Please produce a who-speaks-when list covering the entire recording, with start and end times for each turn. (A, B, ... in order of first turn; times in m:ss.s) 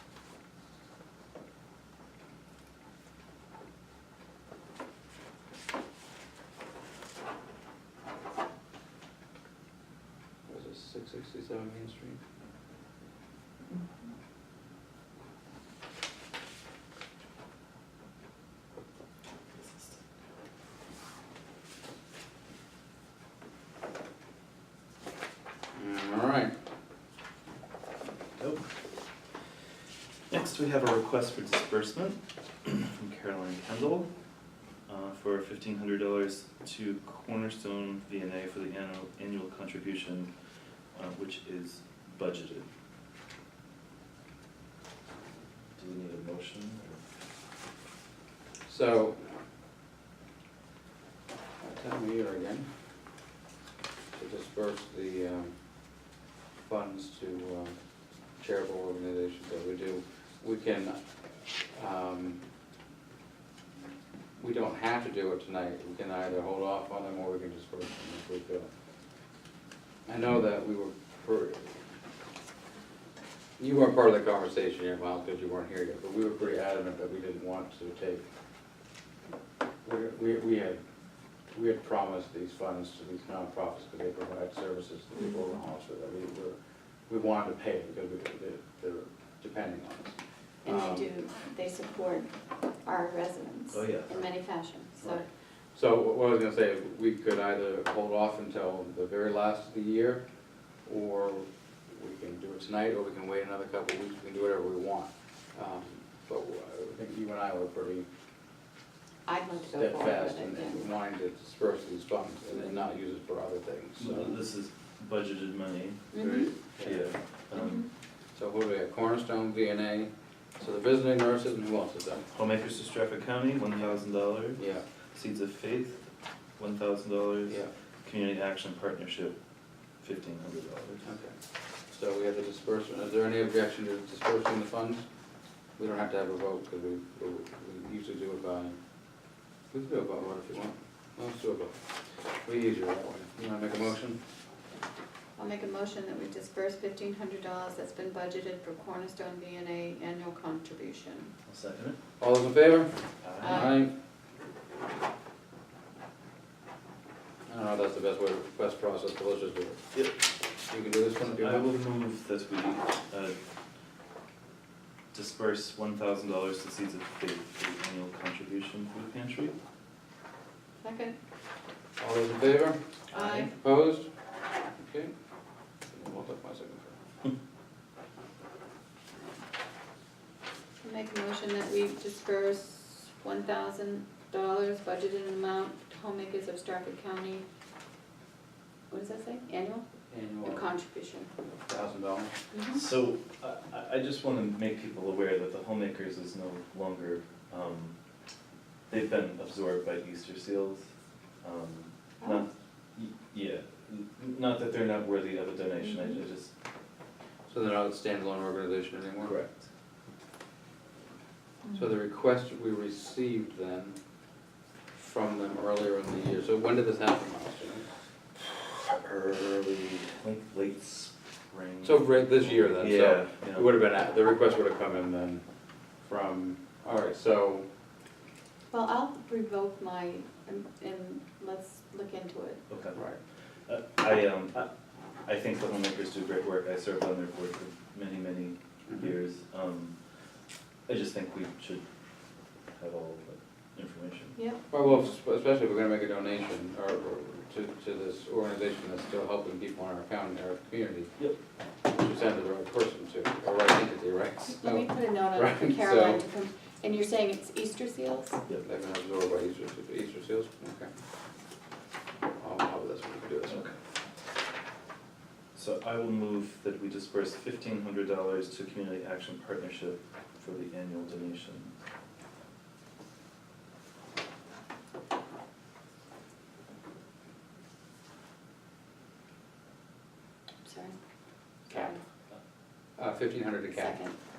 0:10.4-0:12.2 A
0:25.7-0:26.6 A
0:28.4-0:28.6 B
0:30.3-0:34.1 B
0:34.9-0:40.3 B
0:40.9-0:42.7 B
0:45.8-0:47.0 B
0:48.6-0:49.2 A
0:51.6-0:52.7 A
0:54.1-0:55.5 A
0:56.6-0:57.8 A
0:58.4-1:01.0 A
1:01.7-1:02.4 A
1:04.4-1:08.7 A
1:10.0-1:11.8 A
1:13.6-1:18.2 A
1:19.8-1:20.8 A
1:21.5-1:26.6 A
1:27.1-1:31.1 A
1:30.6-1:32.3 C
1:32.8-1:35.2 C
1:33.7-1:34.3 B
1:35.0-1:40.2 A
1:40.8-1:48.1 A
1:49.2-1:50.9 C
1:49.7-1:54.4 A
1:54.0-1:57.8 B
1:56.1-1:56.5 C
1:56.7-1:57.1 A
1:57.6-1:57.8 C
1:58.3-2:02.3 A
2:02.3-2:04.6 B
2:04.6-2:04.8 A
2:05.1-2:06.0 B
2:06.6-2:09.3 B
2:07.5-2:07.7 A
2:10.0-2:11.0 B
2:11.0-2:11.4 A
2:11.9-2:15.0 A
2:15.8-2:18.8 A
2:19.7-2:21.8 A
2:22.4-2:24.2 A
2:25.4-2:31.3 C
2:31.5-2:32.0 B
2:32.2-2:33.9 A
2:33.2-2:33.7 B
2:33.4-2:33.8 C
2:37.5-2:39.8 A
2:40.7-2:41.7 A
2:41.2-2:43.4 B
2:45.1-2:49.5 B
2:50.8-2:51.2 C
2:52.0-2:52.8 A
2:53.1-2:53.5 B
2:53.1-2:53.5 C
2:53.4-2:54.1 A
2:54.7-2:55.1 A
2:55.9-2:57.0 A
3:00.8-3:07.4 C
3:08.9-3:09.8 C
3:10.1-3:10.7 A
3:10.4-3:11.3 C
3:11.6-3:12.3 A
3:12.5-3:12.8 C
3:12.7-3:17.9 B
3:18.9-3:20.9 B
3:21.4-3:26.5 B
3:22.2-3:22.4 C
3:27.5-3:29.4 A
3:29.2-3:29.7 B
3:31.7-3:34.0 A
3:34.9-3:37.9 A
3:38.8-3:43.7 B
3:41.8-3:45.4 A
3:46.0-3:47.6 A
3:48.7-3:52.6 C
3:52.7-3:53.0 B
3:52.9-3:53.2 A
3:53.7-3:54.7 B
3:55.2-3:59.9 B
3:58.9-3:59.1 A
4:00.9-4:01.8 B
4:02.7-4:04.4 B
4:04.4-4:04.6 C
4:04.7-4:11.1 A
4:11.9-4:16.2 A
4:14.6-4:18.4 C
4:18.6-4:20.9 A
4:22.4-4:23.7 A
4:23.5-4:23.7 B
4:25.5-4:31.7 B
4:40.6-4:41.0 C
4:41.7-4:42.0 C
4:43.0-4:44.0 A
4:43.7-4:44.2 C